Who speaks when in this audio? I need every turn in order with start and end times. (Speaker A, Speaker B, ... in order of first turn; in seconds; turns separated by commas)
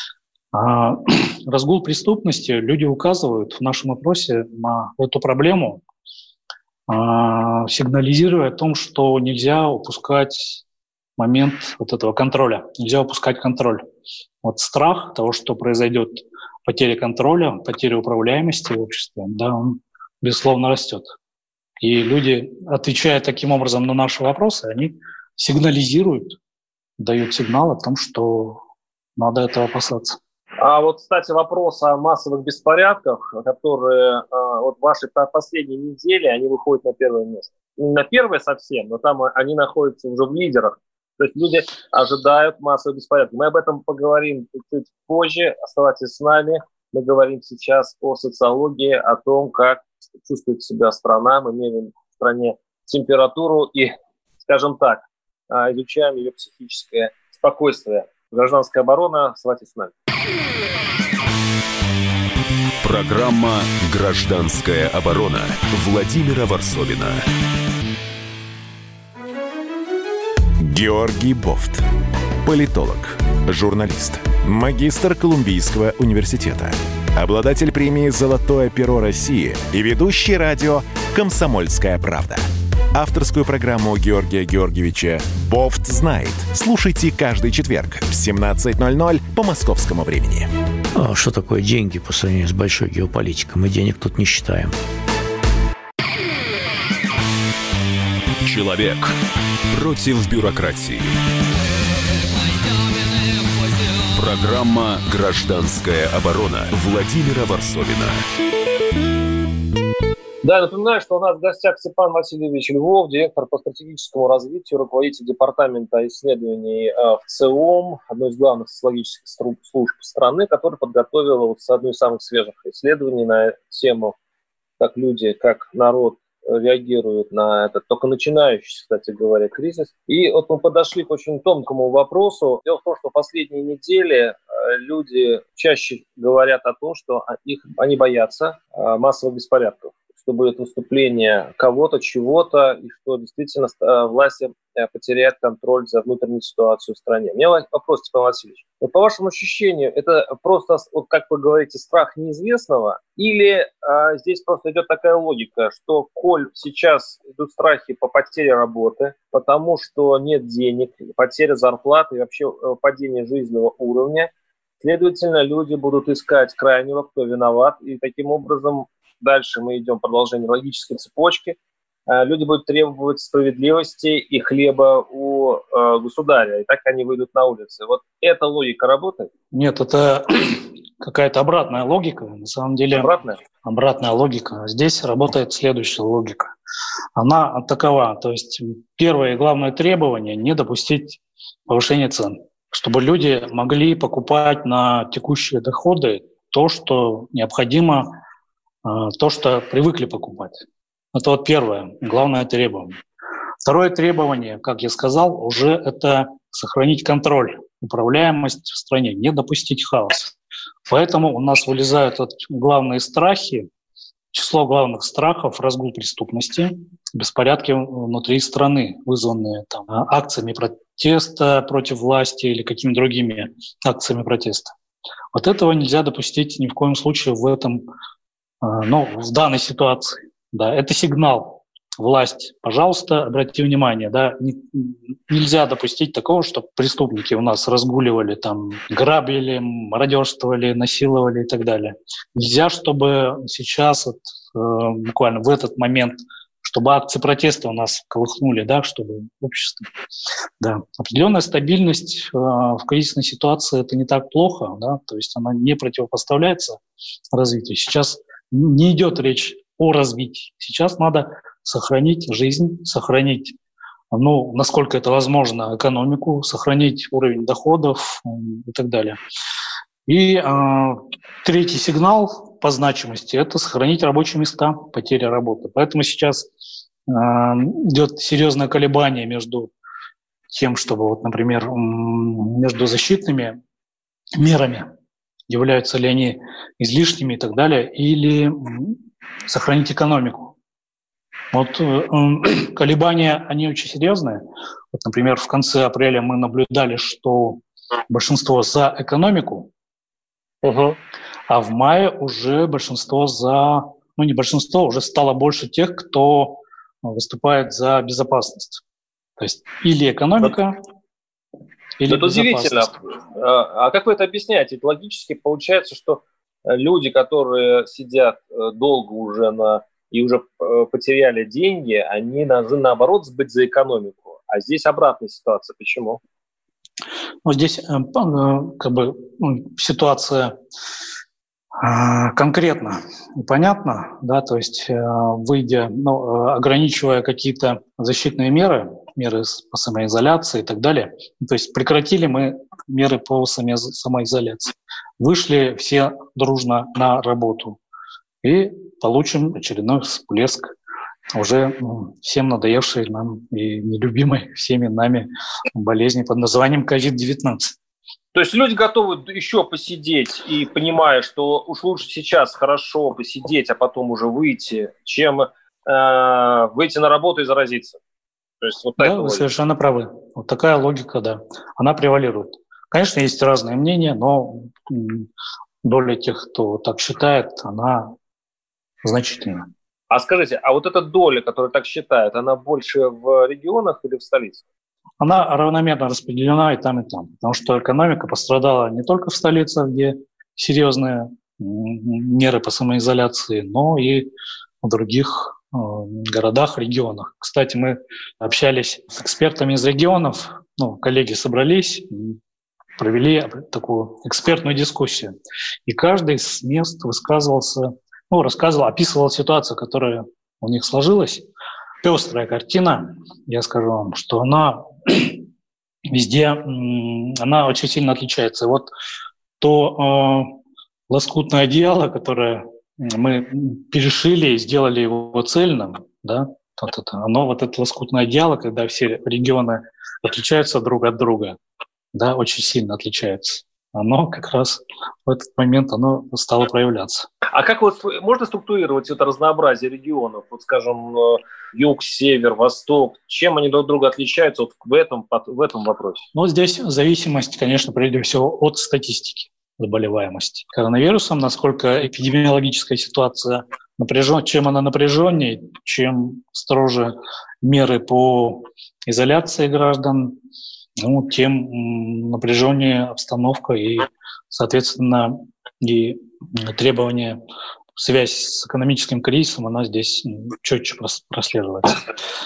Speaker A: 0.5-5.8, Speaker A: 6.9-10.6, Speaker A: 11.2-13.8, Speaker A: 14.4-21.1, Speaker A: 21.8-26.4, Speaker A: 27.0-28.6, Speaker A: 29.2-30.2, Speaker B: 30.6-59.9, Speaker C: 62.8-67.2, Speaker D: 70.6-71.8, Speaker D: 72.4-90.5, Speaker E: 90.9-94.8, Speaker C: 98.4-99.2, Speaker C: 99.7-101.2, Speaker C: 104.1-108.2, Speaker B: 110.4-124.1, Speaker B: 124.8-164.3, Speaker B: 164.8-171.6, Speaker B: 172.1-179.3, Speaker A: 179.5-183.1, Speaker B: 182.9-183.4, Speaker A: 183.6-186.5, Speaker A: 187.2-198.2, Speaker A: 198.8-203.0, Speaker A: 203.6-210.3, Speaker A: 210.8-213.7, Speaker A: 214.3-224.7, Speaker A: 225.3-227.8, Speaker A: 228.6-249.9, Speaker A: 250.6-256.8, Speaker A: 257.3-263.6, Speaker A: 264.1-269.2, Speaker A: 270.1-276.5, Speaker A: 277.1-279.7, Speaker A: 280.5-283.6, Speaker A: 284.4-284.9, Speaker A: 285.5-290.5, Speaker A: 291.5-299.7, Speaker B: 300.6-301.0, Speaker A: 301.5-308.8, Speaker A: 309.4-310.8, Speaker A: 312.0-313.0, Speaker B: 312.1-326.2, Speaker A: 327.4-330.6, Speaker A: 331.8-347.8, Speaker A: 348.4-350.7, Speaker A: 351.3-357.8, Speaker B: 358.3-368.0, Speaker B: 368.6-369.4, Speaker A: 369.0-375.3, Speaker A: 375.8-378.1, Speaker A: 379.0-379.7, Speaker B: 380.1-384.6, Speaker A: 385.2-394.3, Speaker A: 394.8-402.4, Speaker A: 403.0-411.4, Speaker A: 412.0-415.4, Speaker A: 416.1-418.9, Speaker A: 419.6-420.5, Speaker A: 421.1-431.6, Speaker A: 432.1-437.3, Speaker B: 437.5-446.2, Speaker A: 446.3-460.4, Speaker A: 461.0-467.4, Speaker A: 467.9-472.1